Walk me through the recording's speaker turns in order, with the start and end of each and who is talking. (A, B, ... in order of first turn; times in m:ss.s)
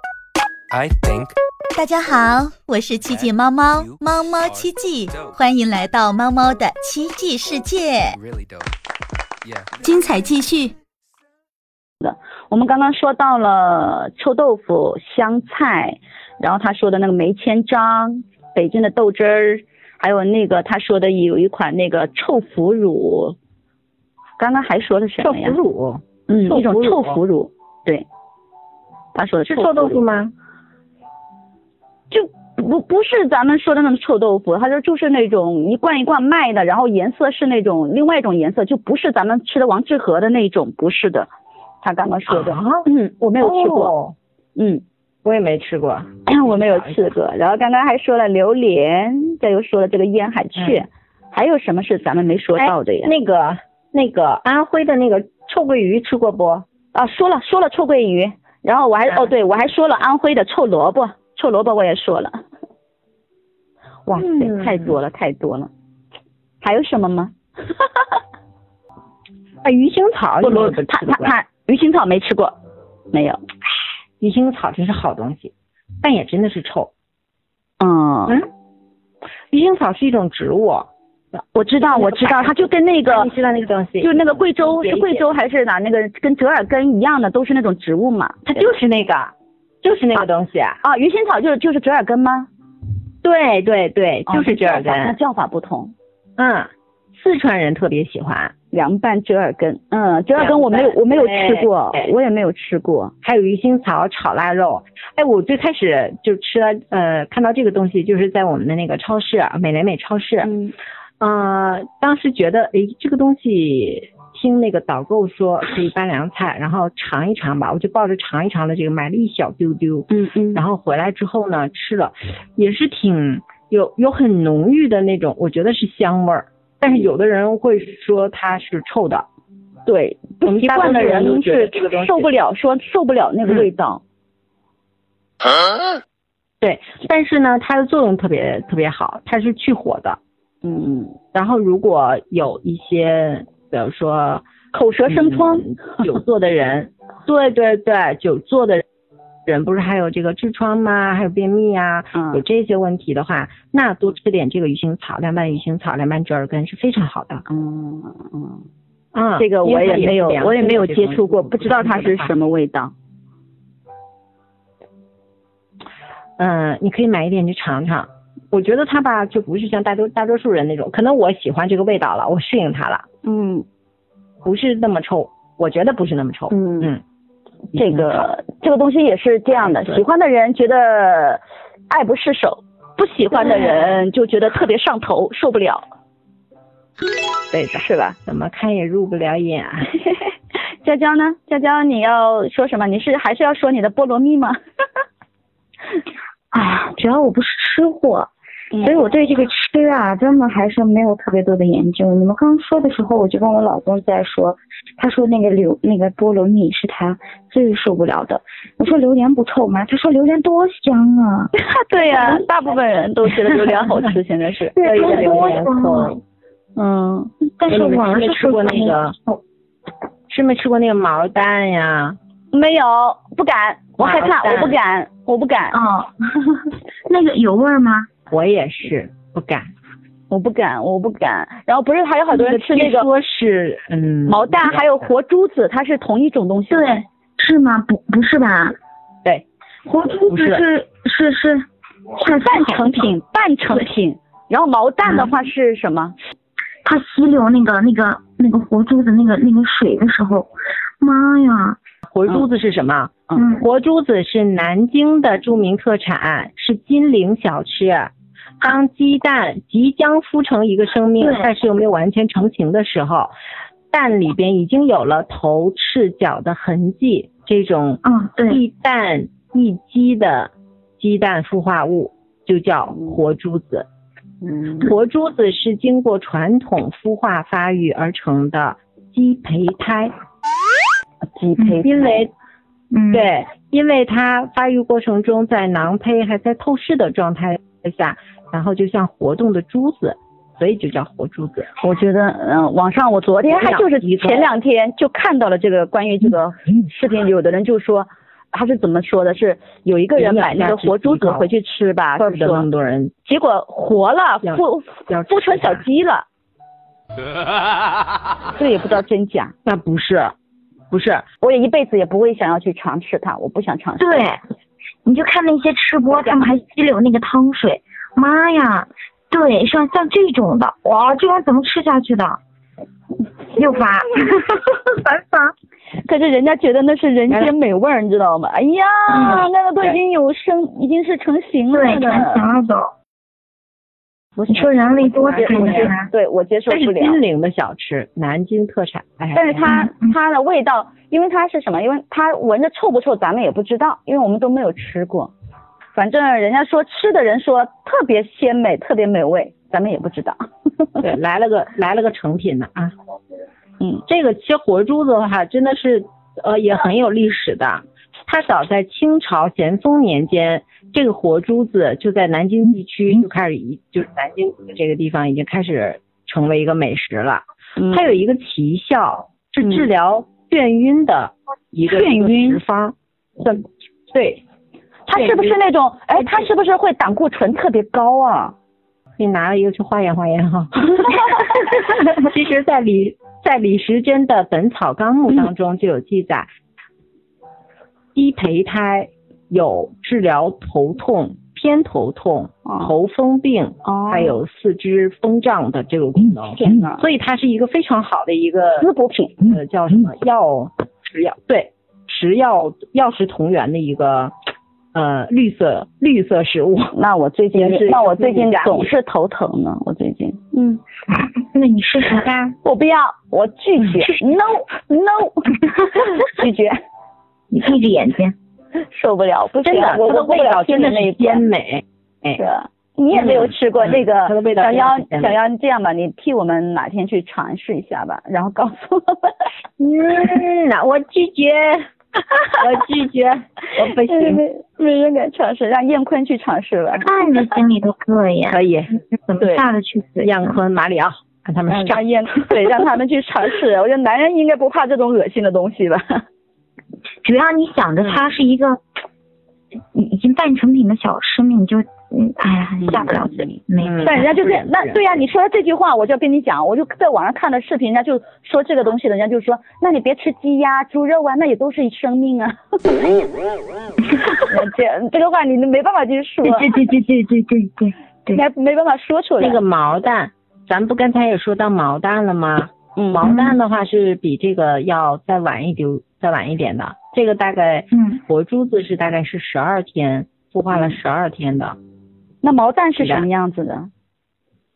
0:00.7-0:01.3 A
0:01.7-0:08.2 B
0:03.0-0:05.4 A
0:08.1-0:08.7 A
0:09.4-0:09.8 A
0:09.8-0:10.7 B
0:12.0-0:23.4 C
0:24.4-0:25.6 C
0:25.2-0:27.2 D
0:26.3-0:28.0 C
0:29.1-0:30.0 C
0:29.5-0:30.3 D
0:32.1-0:41.3 C
0:41.8-0:43.9 C
0:42.3-0:42.9 D
0:43.4-0:44.2 D
0:44.6-0:44.8 C
0:45.2-0:46.9 D
0:46.2-0:53.1 C
0:50.6-0:50.8 D
0:52.6-0:56.6 D
0:56.9-1:02.4 C
1:04.1-1:05.7 C
1:04.1-1:05.0 D
1:06.6-1:07.8 C
1:09.6-1:11.3 D
1:10.4-1:12.6 C
1:13.1-1:13.4 C
1:14.2-1:16.9 D
1:17.8-1:18.4 C
1:19.5-1:20.9 D
1:21.5-1:23.3 C
1:21.8-1:25.4 D
1:24.0-1:28.7 C
1:28.4-1:30.8 D
1:30.8-1:32.5 C
1:33.2-1:35.2 D
1:34.3-1:35.9 C
1:36.4-1:38.5 D
1:38.7-1:43.1 C
1:40.3-1:42.1 D
1:43.2-1:50.5 D
1:50.4-1:50.7 C
1:51.2-2:09.2 D
2:00.1-2:00.6 C
2:09.8-2:14.0 C
2:10.4-2:12.3 D
2:16.6-2:20.2 D
2:20.6-2:21.2 C
2:21.3-2:24.4 D
2:24.7-2:26.0 C
2:25.1-2:28.8 D
2:29.5-2:37.4 D
2:32.1-2:32.4 C
2:37.5-2:38.6 C
2:39.1-2:42.3 D
2:39.4-2:42.9 C
2:46.4-2:53.0 D
2:53.2-2:53.6 C
2:54.4-2:57.0 D
2:56.5-2:56.9 C
2:57.7-3:05.8 C
2:57.7-2:58.2 D
2:59.6-3:00.0 D
3:07.5-3:09.9 D
3:07.7-3:08.2 C
3:10.2-3:14.6 C
3:16.5-3:18.3 E
3:18.7-3:19.0 C
3:18.8-3:31.5 E
3:31.6-3:35.6 C
3:34.8-3:36.1 E
3:34.8-3:36.2 D
3:36.8-3:37.2 D
3:37.6-3:39.4 E
3:37.7-3:39.1 D
3:40.3-3:42.2 D
3:42.5-3:45.8 C
3:44.0-3:44.8 D
3:45.7-3:48.1 E
3:48.3-3:49.7 D
3:50.3-3:53.1 C
3:52.3-3:55.1 D
3:54.3-3:57.0 C
3:56.7-3:58.8 E
3:59.8-4:01.6 E
4:00.3-4:00.6 D
4:02.1-4:03.1 E
4:02.3-4:06.2 C
4:06.8-4:10.5 E
4:11.0-4:11.8 E
4:12.1-4:23.3 D
4:13.3-4:13.7 E
4:21.2-4:21.5 E
4:23.9-4:33.8 D
4:28.0-4:28.6 E
4:32.9-4:33.2 C
4:34.4-4:34.9 C
4:34.8-4:40.1 D
4:41.3-4:42.2 C
4:41.8-4:42.3 D
4:42.9-4:43.3 E
4:43.1-4:51.7 D
4:51.8-5:02.7 C
4:53.4-4:54.5 D
5:00.2-5:01.5 D
5:02.2-5:03.1 D
5:03.2-5:06.2 C
5:04.4-5:05.8 D
5:08.6-5:09.5 C
5:09.6-5:10.3 D
5:10.9-5:11.2 D
5:11.4-5:14.3 C
5:14.0-5:14.4 E
5:15.0-5:22.4 E
5:23.5-5:25.5 E
5:26.0-5:32.5 C
5:29.1-5:29.9 D
5:31.7-5:32.9 E
5:31.8-5:32.3 D
5:34.4-5:35.9 D
5:34.5-5:36.1 E
5:35.3-5:37.2 C
5:36.7-5:39.7 D
5:39.3-5:45.3 C
5:39.6-5:40.1 E
5:45.9-5:50.4 C
5:51.0-5:52.9 D
5:54.1-6:13.6 D
6:07.8-6:08.1 C
6:11.9-6:12.6 C
6:14.1-6:14.4 D
6:15.1-6:18.5 C
6:15.1-6:15.6 D
6:16.2-6:16.5 D
6:19.2-6:26.5 D
6:28.1-6:38.9 D
6:32.6-6:32.9 C
6:33.8-6:34.4 C
6:36.5-6:37.1 C
6:38.8-6:39.4 C
6:39.4-6:44.3 D
6:44.9-6:46.9 D
6:46.9-6:50.8 C
6:47.5-6:48.9 D
6:51.1-6:52.5 E
6:52.1-6:52.4 D
6:52.6-6:56.8 C
6:57.5-6:58.3 E
6:58.8-7:01.5 C
6:59.6-7:02.4 D
7:02.4-7:09.5 C
7:03.1-7:05.4 D
7:09.8-7:11.8 D
7:12.4-7:14.4 D
7:14.0-7:17.1 C
7:17.0-7:18.6 E
7:18.5-7:19.0 D
7:19.1-7:20.6 E
7:20.2-7:22.5 D
7:21.7-7:26.2 C
7:27.2-7:28.8 E
7:29.9-7:34.4 E
7:32.8-7:43.2 C
7:33.8-7:35.2 D
7:44.3-7:46.7 C
7:46.4-7:48.4 E
7:48.3-7:49.6 C
7:49.4-8:01.8 D
7:53.0-7:53.3 C
7:53.2-7:53.6 E
7:57.9-7:58.2 E
8:00.7-8:01.0 C
8:02.4-8:03.9 C
8:03.0-8:03.2 D